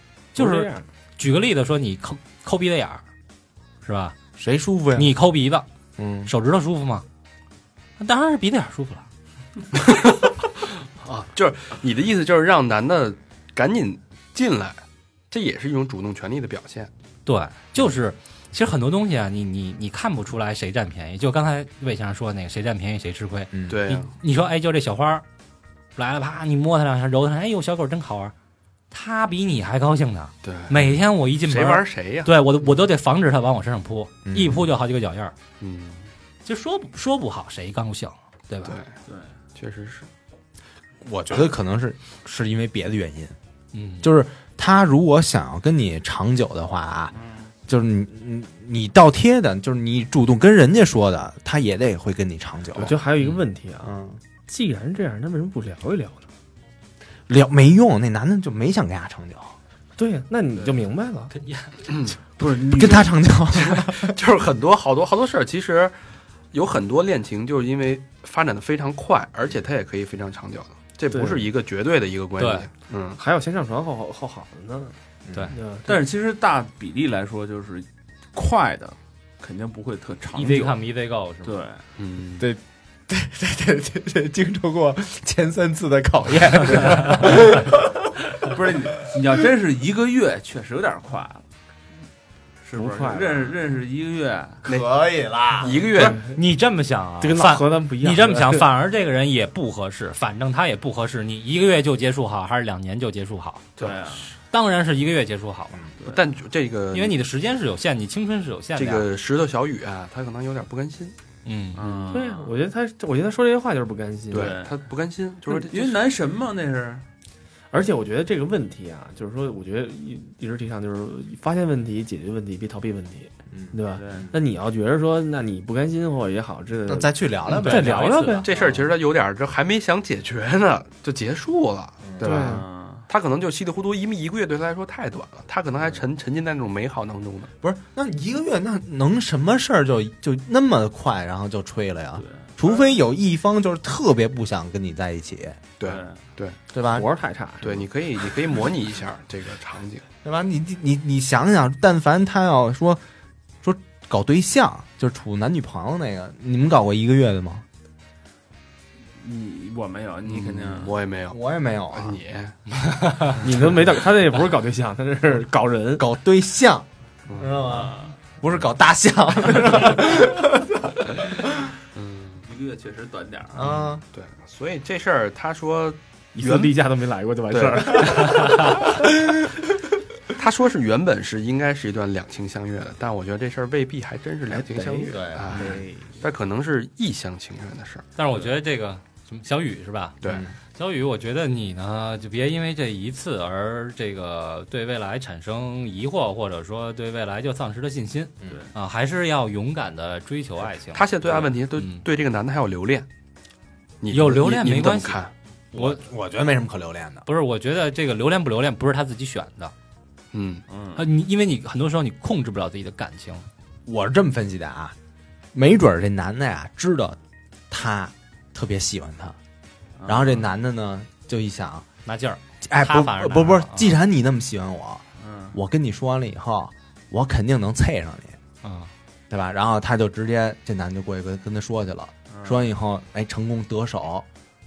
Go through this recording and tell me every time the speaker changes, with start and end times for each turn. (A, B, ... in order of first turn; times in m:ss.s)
0:00.3-0:03.0 A
0:00.4-0:00.8 B
0:03.8-0:04.2 A
0:04.4-0:05.2 C
0:05.0-0:05.6 A
0:06.0-0:06.3 C
0:06.2-0:07.0 A
0:08.0-0:09.0 A
0:09.7-0:10.3 D
0:11.0-0:16.9 D
0:17.2-0:25.2 A
0:23.5-0:23.8 C
0:23.7-0:24.1 D
0:26.0-0:28.3 A
0:28.9-0:35.3 A
0:30.4-0:30.8 D
0:31.4-0:32.3 D
0:34.2-0:34.7 C
0:35.6-0:36.1 D
0:36.4-0:38.8 A
0:38.6-0:38.9 D
0:39.0-0:39.3 E
0:39.5-0:40.1 D
0:41.0-0:43.3 C
0:43.7-0:44.1 A
0:44.0-0:47.1 C
0:47.2-0:47.5 E
0:47.7-0:53.0 C
0:52.7-0:53.9 B
0:53.8-0:54.2 C
0:54.5-0:56.3 B
0:57.3-0:59.6 C
1:00.0-1:01.3 B
1:01.3-1:01.7 A
1:01.9-1:02.2 D
1:02.4-1:03.1 E
1:02.4-1:04.2 C
1:03.5-1:05.9 D
1:06.5-1:13.2 D
1:11.1-1:11.5 B
1:12.4-1:12.7 A
1:13.2-1:14.9 B
1:15.3-1:15.5 C
1:15.5-1:16.0 B
1:15.9-1:20.8 E
1:20.3-1:21.6 A
1:21.4-1:21.8 E
1:22.0-1:22.5 D
1:22.4-1:28.1 C
1:28.4-1:31.4 E
1:32.6-1:34.6 E
1:32.7-1:33.5 B
1:34.6-1:35.8 C
1:35.6-1:36.2 D
1:36.0-1:43.7 A
1:37.2-1:38.7 B
1:43.8-1:44.3 D
1:43.8-1:44.3 E
1:44.5-1:45.8 A
1:46.0-1:47.1 D
1:46.9-1:49.1 A
1:48.8-1:51.1 D
1:51.4-1:51.8 A
1:51.7-1:52.5 E
1:52.1-1:54.6 B
1:54.3-1:56.0 D
1:54.3-1:54.8 E
1:55.5-1:57.0 E
1:57.7-2:08.5 B
2:03.5-2:04.3 C
2:03.9-2:04.3 E
2:06.9-2:08.8 C
2:07.5-2:08.5 A
2:08.4-2:17.5 D
2:12.0-2:12.3 C
2:12.2-2:12.6 B
2:12.4-2:13.1 E
2:17.6-2:25.6 C
2:22.2-2:22.8 E
2:25.8-2:26.6 D
2:25.8-2:26.2 E
2:26.7-2:27.0 C
2:26.8-2:27.8 B
2:27.6-2:30.0 D
2:30.2-2:33.0 C
2:33.6-2:37.6 C
2:39.2-2:41.0 E
2:40.2-2:41.4 D
2:41.3-2:42.2 C
2:41.9-2:42.6 D
2:42.9-2:43.3 A
2:43.4-2:46.1 B
2:46.0-2:51.7 C
2:47.3-2:47.6 D
2:47.6-2:48.1 E
2:51.9-2:52.4 D
2:52.4-2:53.7 E
2:53.5-2:54.0 C
2:53.7-2:56.8 D
2:56.3-2:58.8 B
2:57.5-2:59.1 D
3:00.3-3:08.0 D
3:04.5-3:06.2 B
3:04.6-3:05.8 C
3:08.2-3:10.2 A
3:10.2-3:10.5 C
3:10.7-3:22.0 A
3:20.9-3:23.1 D
3:24.0-3:25.3 D
3:24.1-3:26.0 A
3:25.7-3:27.3 C
3:27.3-3:29.7 A
3:30.3-3:30.6 D
3:30.7-3:31.0 E
3:31.0-3:33.4 A
3:33.8-3:34.9 C
3:35.5-3:37.2 C
3:37.7-3:39.4 C
3:40.0-3:40.4 E
3:40.0-3:41.8 C
3:42.0-3:44.0 A
3:42.6-3:48.4 C
3:45.2-3:45.6 E
3:48.6-3:48.9 A
3:49.3-3:54.2 C
3:52.3-3:52.6 E